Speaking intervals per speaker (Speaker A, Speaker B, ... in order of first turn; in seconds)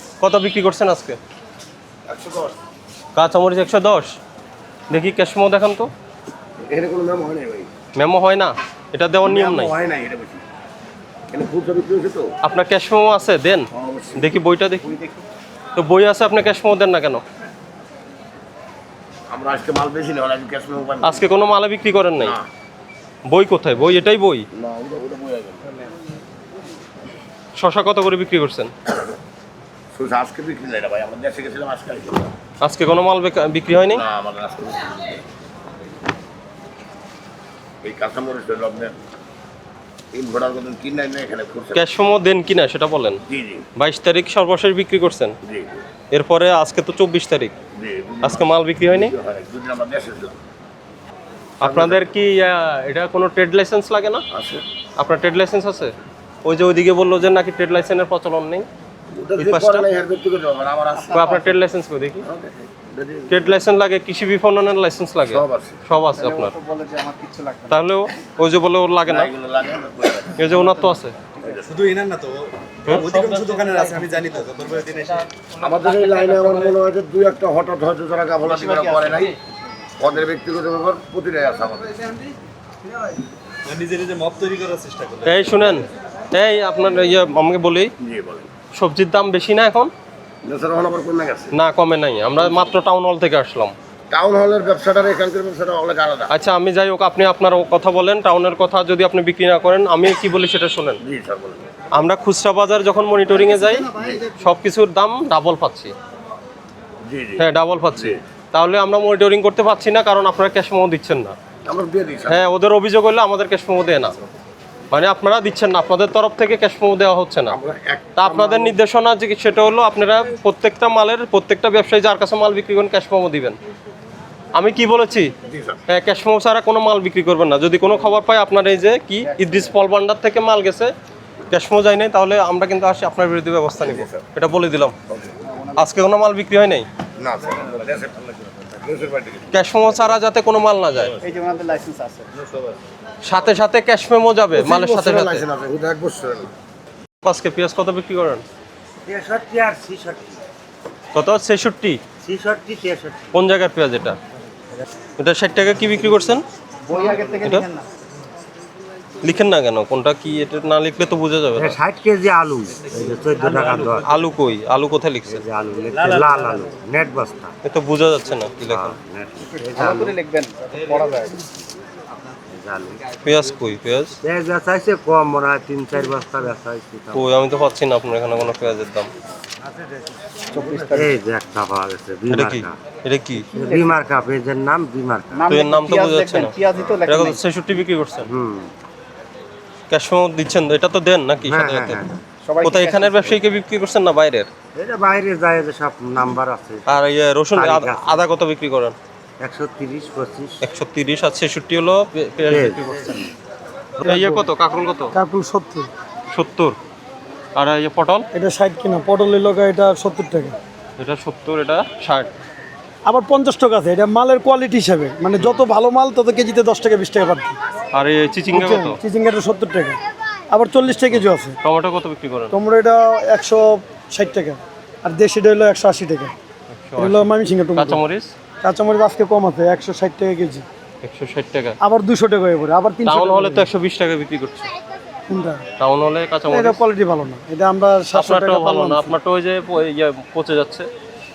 Speaker A: 0.2-1.2, 3.1-4.2, 4.9-5.9, 8.0-9.7, 12.4-14.9, 15.8-17.2, 21.0-22.4, 23.3-24.4, 27.6-28.7, 32.6-34.0, 41.8-43.2, 43.8-45.4, 46.1-47.5, 48.2-49.1, 51.6-54.2, 55.0-55.9, 56.5-58.7, 59.4-59.9, 61.1-62.2, 63.3-66.6, 67.7-69.3, 70.4-71.2, 85.3-87.9, 88.7-89.9, 91.5-93.8, 96.3-101.0, 101.9-105.9, 107.4-111.4, 112.3-114.2, 114.9-117.6, 118.2-123.6, 124.5-125.3, 125.9-130.9, 131.5-134.9, 135.8-136.9, 139.5-141.1, 143.2-145.4, 147.2-148.4, 151.1-152.0, 153.3-154.2, 155.2-156.4, 159.2-161.8, 164.1-165.4, 167.7-169.0, 173.2-174.2, 177.1-179.1, 182.3-183.5, 185.5-188.3, 189.9-192.0, 192.6-194.5, 196.9-198.9, 200.6-203.2, 204.0-205.1, 206.3-206.8, 207.6-208.3, 211.0-212.3, 215.4-215.7, 217.9-219.0, 221.1-222.6, 226.7-228.3, 231.0-231.8, 233.1-234.7, 235.8-236.8, 238.1-240.9
Speaker B: 2.1-2.5, 6.6-7.7, 9.2-10.4, 11.3-12.3, 13.7-14.4, 19.3-21.3, 22.2-22.5, 24.6-25.8, 29.9-32.3, 33.9-35.2, 37.8-39.0, 40.1-41.8, 43.3-43.6, 45.4-45.8, 47.8-50.4, 51.6-52.0, 54.3-54.6, 59.1-61.3, 62.3-63.6, 65.2-65.8, 69.1-70.5, 71.4-71.7, 75.6-79.3, 80.0-82.0, 88.0-88.5, 90.4-91.5, 94.1-96.3, 101.0-101.7, 103.8-104.2, 107.1-108.2, 111.7-112.4, 117.5-118.8, 125.5-125.8, 135.1-135.4, 137.2-139.5, 144.5-146.5, 179.7-180.4
Speaker C: 14.8-15.3, 61.0-61.5, 66.2-67.8, 70.5-71.6, 73.0-73.8, 75.9-76.7, 78.5-79.4, 135.5-135.8, 141.2-142.3, 156.9-157.9, 169.8-171.4, 180.5-181.2, 183.6-183.9, 185.3-187.4, 192.4-193.3
Speaker D: 71.7-75.3, 83.7-85.4
Speaker E: 149.1-150.4, 152.2-153.4, 161.6-164.1, 165.3-167.5, 168.7-170.2, 172.5-173.0, 174.2-177.3, 180.8-182.8, 183.5-185.5, 188.2-188.7, 191.4-192.2, 194.7-198.3, 199.4-200.6, 202.5-203.3
Speaker F: 204.0-204.5, 205.1-205.9, 208.3-210.6, 213.1-217.6, 218.5-220.0, 220.5-221.6, 222.5-226.3, 227.0-228.0, 228.6-230.7, 231.8-233.7, 235.3-235.6, 236.5-239.1